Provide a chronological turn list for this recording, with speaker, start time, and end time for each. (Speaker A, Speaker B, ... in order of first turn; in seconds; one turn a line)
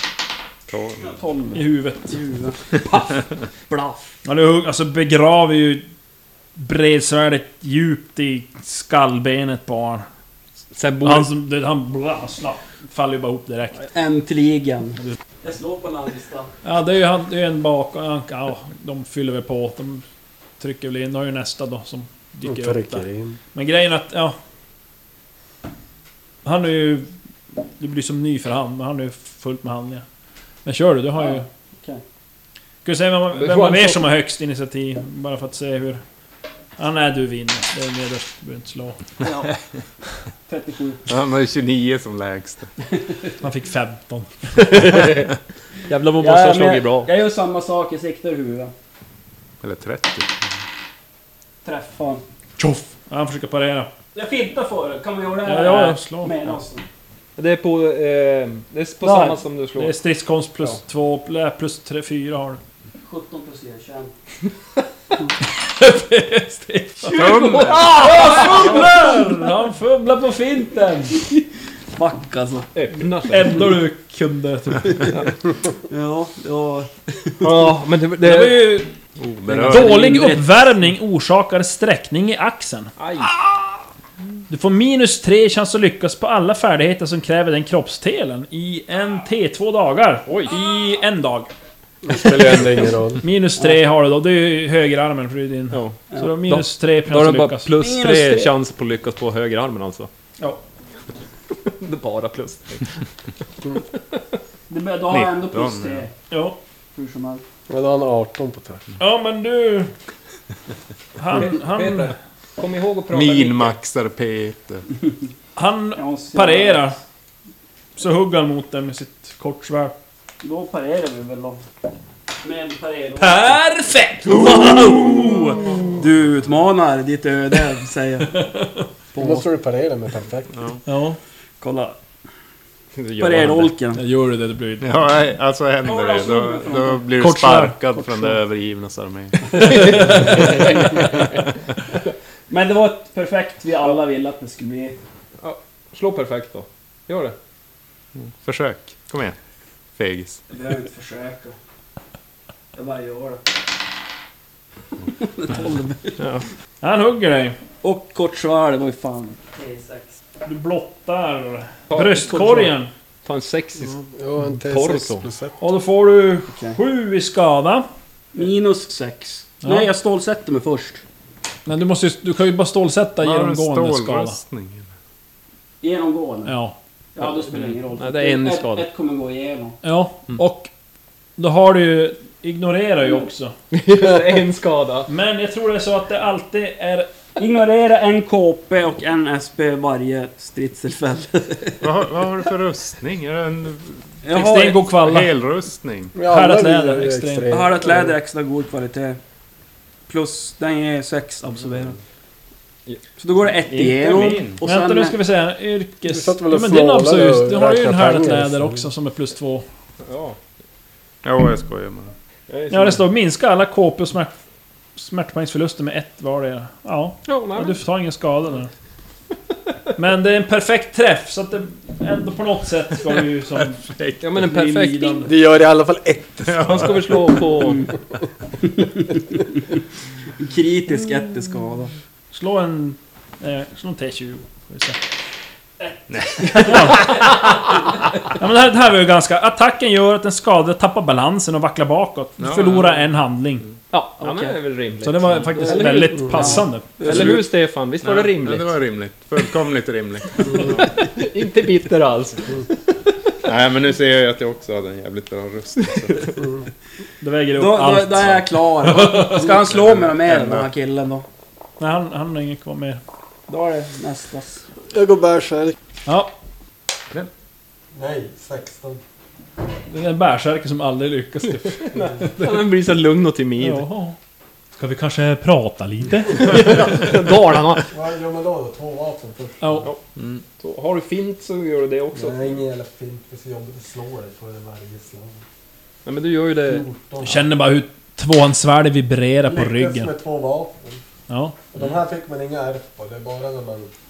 Speaker A: 0.7-1.1
Speaker B: 1.0-4.1
Speaker C: 1.5-2.2
Speaker C: 4.2-5.8
Speaker C: 6.6-10.1
Speaker D: 10.7-11.3
Speaker C: 11.0-13.8
Speaker B: 13.8-16.5
Speaker C: 16.6-20.0
Speaker C: 20.6-24.4
Speaker E: 22.4-23.4
Speaker C: 26.4-27.1
Speaker C: 27.8-30.0
Speaker C: 30.6-31.5
Speaker B: 31.2-32.0
Speaker C: 32.8-36.0
Speaker D: 33.3-34.0
Speaker C: 36.8-39.0
Speaker B: 39.2-39.5
Speaker B: 40.5-41.0
Speaker A: 41.1-42.7
Speaker C: 43.4-44.8
Speaker D: 44.5-45.3
Speaker D: 45.9-47.1
Speaker B: 46.2-48.7
Speaker A: 49.6-50.4
Speaker B: 51.6-52.2
Speaker C: 52.6-53.9
Speaker B: 54.1-56.9
Speaker C: 55.5-56.3
Speaker D: 57.4-59.9
Speaker B: 59.0-59.4
Speaker C: 59.7-62.6
Speaker B: 63.0-64.1
Speaker C: 65.6-71.2
Speaker B: 67.1-69.5
Speaker A: 67.1-68.0
Speaker D: 67.2-68.6
Speaker B: 71.9-73.0
Speaker D: 72.7-73.6
Speaker C: 73.3-75.1
Speaker B: 75.9-77.7
Speaker D: 77.4-78.7
Speaker C: 78.2-78.9
Speaker A: 79.2-80.1
Speaker B: 79.5-80.5
Speaker C: 79.7-83.6
Speaker D: 83.0-83.3
Speaker C: 84.5-91.5
Speaker D: 90.3-90.5
Speaker E: 92.0-93.2
Speaker C: 93.2-97.7
Speaker D: 95.7-100.1
Speaker B: 97.8-98.5
Speaker D: 101.6-103.0
Speaker B: 104.7-106.1
Speaker A: 105.1-106.0
Speaker C: 106.3-106.6
Speaker B: 106.9-107.4
Speaker E: 107.7-108.8
Speaker C: 109.0-109.9
Speaker C: 111.2-112.1
Speaker D: 111.3-113.8
Speaker A: 113.1-114.8
Speaker C: 115.5-117.0
Speaker B: 116.0-116.9
Speaker C: 118.0-119.9
Speaker B: 120.4-121.6
Speaker B: 122.4-123.6
Speaker C: 123.2-126.0
Speaker B: 124.4-128.5
Speaker C: 128.3-128.8
Speaker B: 129.1-129.4
Speaker E: 129.2-130.5
Speaker C: 130.8-131.2
Speaker B: 131.6-132.0
Speaker D: 132.9-133.7
Speaker B: 133.2-134.0
Speaker C: 133.9-134.8
Speaker A: 134.8-141.4
Speaker B: 135.8-137.1
Speaker C: 137.2-137.8
Speaker B: 137.9-138.3
Speaker B: 139.6-141.2
Speaker D: 139.9-140.4
Speaker B: 142.5-144.9
Speaker D: 145.4-147.3
Speaker A: 148.2-149.4
Speaker A: 150.0-150.4
Speaker B: 150.5-151.6
Speaker B: 152.7-153.5
Speaker B: 155.0-156.2
Speaker D: 156.2-156.4
Speaker C: 156.8-157.6
Speaker B: 157.8-160.1
Speaker C: 160.4-162.9
Speaker D: 161.9-162.7
Speaker D: 163.2-164.0
Speaker E: 163.8-165.6
Speaker D: 164.6-165.3
Speaker C: 165.6-167.8
Speaker B: 166.5-166.8
Speaker B: 168.3-171.0
Speaker C: 169.6-169.9
Speaker C: 171.7-174.4
Speaker A: 173.2-174.9
Speaker B: 175.8-176.5
Speaker C: 176.4-176.7
Speaker B: 177.2-179.8
Speaker D: 177.2-178.8
Speaker C: 179.8-180.7
Speaker C: 181.4-183.5
Speaker D: 183.7-185.1
Speaker C: 185.1-187.1
Speaker B: 187.4-191.9
Speaker A: 191.8-194.0
Speaker B: 194.2-194.8
Speaker C: 194.3-195.3
Speaker A: 194.9-196.1
Speaker E: 196.1-198.1
Speaker C: 196.2-197.5
Speaker B: 197.5-199.2
Speaker B: 200.1-202.0
Speaker B: 203.2-205.2
Speaker D: 203.7-204.3
Speaker A: 204.0-204.6
Speaker C: 204.6-209.6
Speaker E: 206.1-208.9
Speaker D: 210.0-210.4
Speaker A: 211.2-212.1
Speaker D: 212.5-213.0
Speaker C: 212.7-214.3
Speaker C: 215.0-218.7
Speaker D: 217.2-217.8
Speaker C: 220.0-223.8
Speaker A: 223.6-224.4
Speaker D: 224.2-225.3
Speaker C: 224.3-225.3
Speaker E: 225.2-227.2
Speaker A: 226.4-227.1
Speaker D: 226.7-227.8
Speaker B: 228.6-229.1
Speaker B: 230.4-231.9
Speaker C: 232.3-235.0
Speaker A: 236.1-237.3
Speaker B: 236.4-236.8
Speaker C: 236.6-237.2
Speaker D: 236.6-237.3
Speaker C: 238.3-243.7
Speaker A: 242.4-243.0
Speaker D: 243.9-248.7
Speaker B: 244.2-244.6
Speaker C: 245.0-247.0
Speaker B: 245.5-247.4
Speaker A: 248.0-250.9
Speaker D: 250.4-252.9
Speaker A: 253.4-256.3
Speaker D: 255.8-256.2
Speaker C: 257.2-258.4
Speaker B: 257.6-261.2
Speaker A: 258.9-260.7
Speaker C: 261.8-263.0
Speaker B: 263.5-264.6
Speaker E: 264.9-265.8
Speaker C: 266.1-266.3
Speaker E: 267.9-269.0
Speaker C: 269.9-272.6
Speaker D: 271.9-273.9
Speaker C: 273.6-274.2
Speaker C: 274.8-277.0
Speaker D: 276.3-277.9
Speaker E: 277.9-279.9
Speaker C: 279.6-279.9
Speaker A: 280.1-280.4
Speaker D: 280.6-282.5
Speaker E: 282.1-285.4
Speaker D: 286.0-286.9
Speaker E: 286.6-287.5
Speaker C: 287.2-290.1
Speaker E: 289.5-291.0
Speaker C: 291.3-291.6
Speaker E: 291.7-293.9